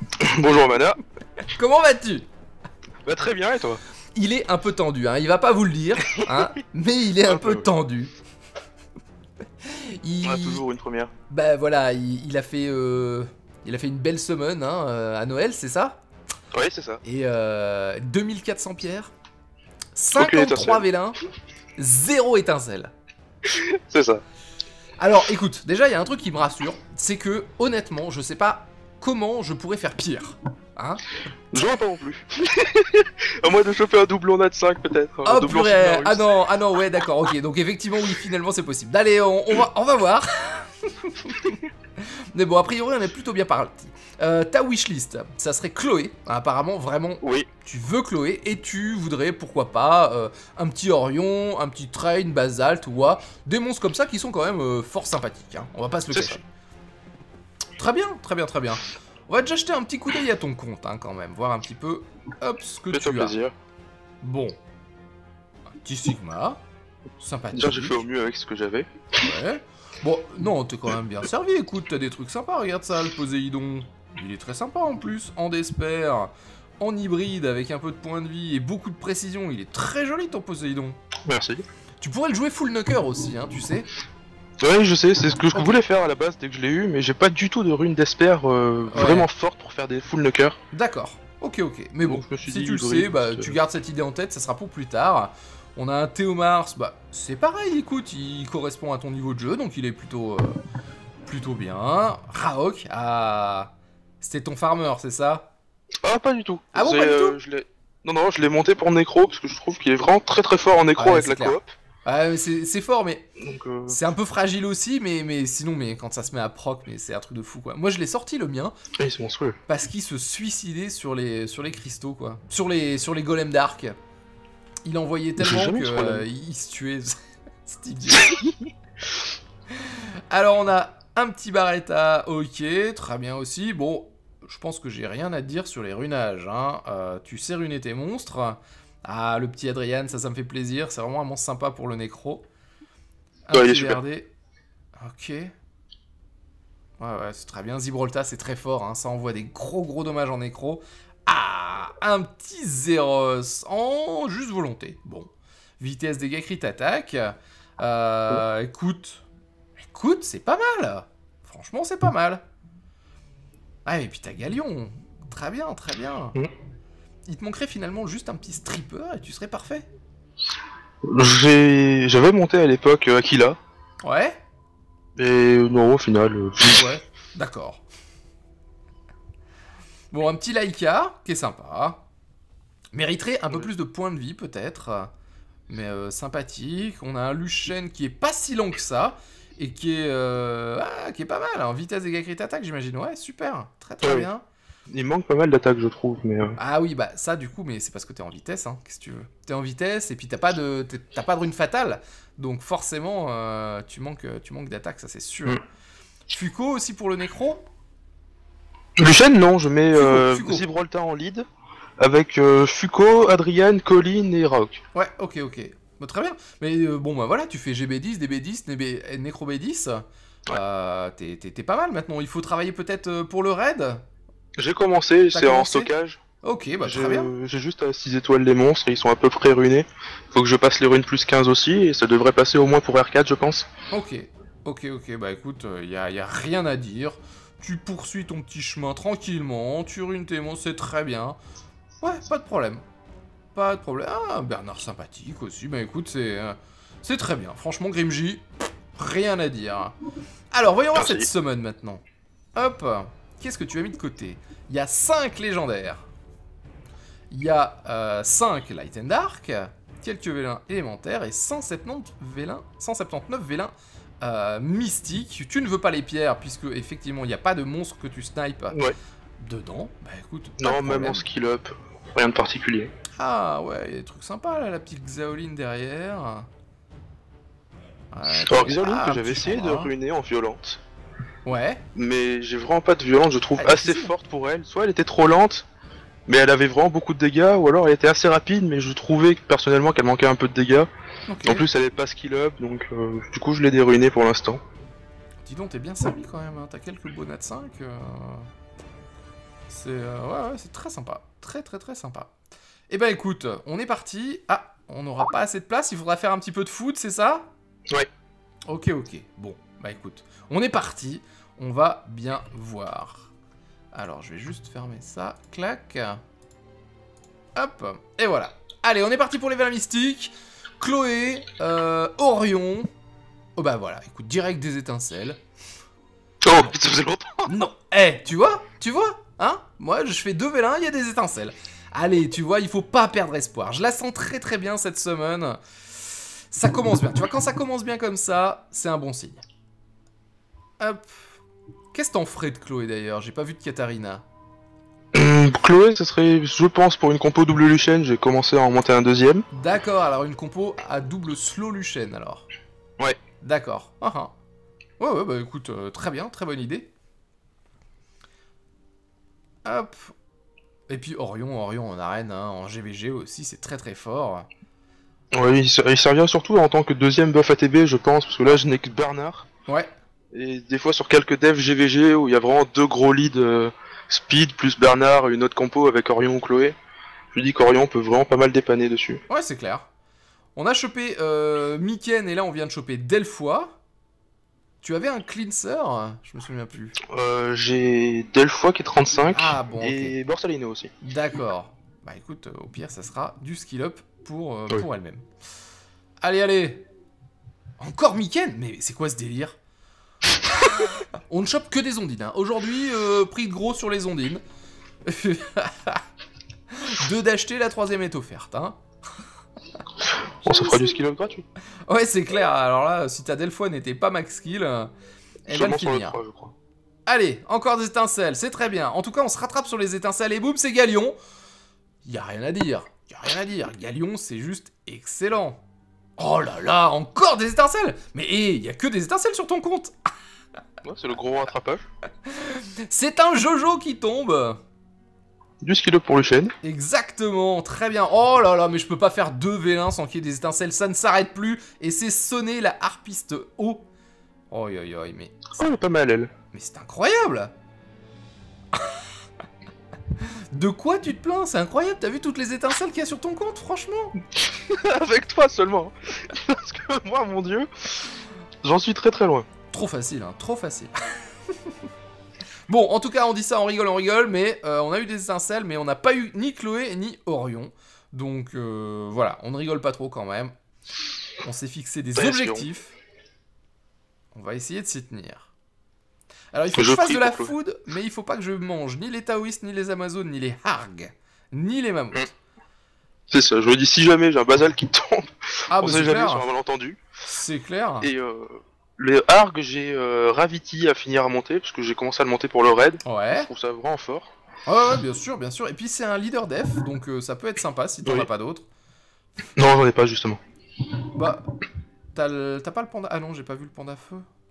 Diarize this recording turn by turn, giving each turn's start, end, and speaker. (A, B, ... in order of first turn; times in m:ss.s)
0:00.2-0:01.0 A
0:01.5-0:02.3 B
0:03.0-0:03.8 A
0:04.2-0:08.1 B
0:07.2-0:07.7 A
0:09.6-0:10.6 B
0:10.2-0:11.1 A
0:11.3-0:16.0 B
0:16.5-0:17.0 A
0:17.0-0:19.1 B
0:20.0-0:21.2 B
0:20.2-0:20.8 A
0:21.8-0:22.9 B
0:23.4-0:24.2 A
0:25.0-0:31.6 B
0:31.5-0:36.2 A
0:35.2-0:56.4 B
0:47.2-0:47.5 A
0:56.1-0:56.4 A
0:57.8-1:03.4 B
1:02.9-1:03.6 A
1:04.2-1:04.6 B
1:05.8-1:06.6 B
1:07.2-1:08.1 B
1:07.5-1:08.9 A
1:09.2-1:21.0 B
1:21.2-1:21.6 A
1:22.0-1:23.9 B
1:24.6-1:30.6 A
1:28.9-1:29.3 B
1:30.7-1:40.6 B
1:32.0-1:33.6 A
1:41.3-1:45.5 B
1:46.0-1:51.7 A
1:46.7-1:47.4 B
1:51.0-1:53.3 B
1:53.4-1:54.0 A
1:53.9-1:58.8 B
1:59.0-1:59.6 A
1:59.7-2:04.0 B
2:04.9-2:08.4 B
2:05.4-2:06.2 A
2:08.2-2:08.5 A
2:09.7-2:22.4 B
2:23.5-2:24.3 B
2:23.5-2:24.0 A
2:25.0-2:25.5 B
2:27.0-2:39.2 B
2:39.9-2:42.4 B
2:43.9-2:46.4 B
2:47.3-2:49.9 B
2:51.0-2:53.6 A
2:54.0-2:54.4 B
2:55.2-2:56.9 A
2:56.6-2:57.8 B
3:00.1-3:02.0 B
3:02.9-3:05.1 B
3:05.7-3:14.4 B
3:14.0-3:14.3 A
3:14.9-3:16.6 A
3:16.6-3:25.6 B
3:26.3-3:27.6 B
3:29.0-3:31.5 A
3:29.9-3:30.7 B
3:32.0-3:34.8 A
3:34.9-3:44.0 B
3:44.6-3:46.2 A
3:45.3-3:45.9 B
3:46.4-3:47.3 B
3:46.8-3:53.7 A
3:53.9-4:01.4 B
4:02.0-4:02.8 B
4:03.6-4:08.4 B
4:09.0-4:10.0 B
4:10.5-4:12.0 B
4:11.0-4:11.3 A
4:12.6-4:16.1 B
4:17.3-4:28.8 B
4:29.4-4:31.2 B
4:30.6-4:32.9 A
4:33.2-4:36.5 B
4:38.1-4:39.9 B
4:38.5-4:40.8 A
4:41.5-4:41.8 B
4:42.0-4:45.7 A
4:43.6-4:44.1 B
4:46.3-4:50.9 A
4:51.3-4:51.6 B
4:51.4-4:54.6 A
4:55.5-4:58.5 B
4:59.7-5:02.3 B
5:02.9-5:07.5 B
5:08.7-5:13.3 B
5:13.9-5:16.2 B
5:17.6-5:22.9 B
5:23.6-5:25.4 B
5:26.4-5:27.5 A
5:27.5-5:39.4 B
5:40.8-5:41.2 B
5:41.9-5:44.2 B
5:45.1-5:49.5 A
5:49.5-5:52.5 B
5:53.4-5:54.3 B
5:55.0-5:56.9 B
5:59.6-6:00.1 B
6:00.9-6:04.5 B
6:05.3-6:09.5 A
6:10.3-6:16.8 A
6:17.3-6:19.2 A
6:19.3-6:19.9 B
6:20.6-6:23.8 B
6:24.8-6:27.0 B
6:27.0-6:30.9 A
6:29.3-6:30.2 B
6:31.0-6:35.3 B
6:36.2-6:36.8 B
6:37.8-6:39.6 B
6:40.5-6:44.4 B
6:45.0-6:46.0 B
6:46.7-6:48.8 B
6:50.1-6:51.4 A
6:50.4-6:50.8 B
6:51.9-6:54.9 B
6:55.5-6:56.2 B
6:55.5-6:56.6 A
6:57.1-7:01.2 B
7:02.0-7:05.6 B
7:06.2-7:09.9 B
7:10.8-7:11.8 A
7:12.3-7:14.6 B
7:15.6-7:16.6 A
7:16.6-7:23.9 B
7:24.5-7:25.5 B
7:25.6-7:26.3 A
7:26.5-7:27.5 B
7:28.7-7:29.0 B
7:30.2-7:34.2 B
7:34.4-7:39.5 A
7:39.7-7:40.9 B
7:42.7-7:50.5 B
7:51.4-7:53.0 B
7:52.2-7:52.7 A
7:54.3-7:55.5 B
7:56.5-8:02.3 B
7:56.7-7:57.5 A
8:03.3-8:07.0 A
8:05.7-8:06.5 B
8:07.2-8:08.1 B
8:08.0-8:14.3 A
8:13.0-8:13.5 B
8:14.7-8:18.7 B
8:19.6-8:20.4 A
8:21.1-8:21.5 B
8:22.2-8:24.2 B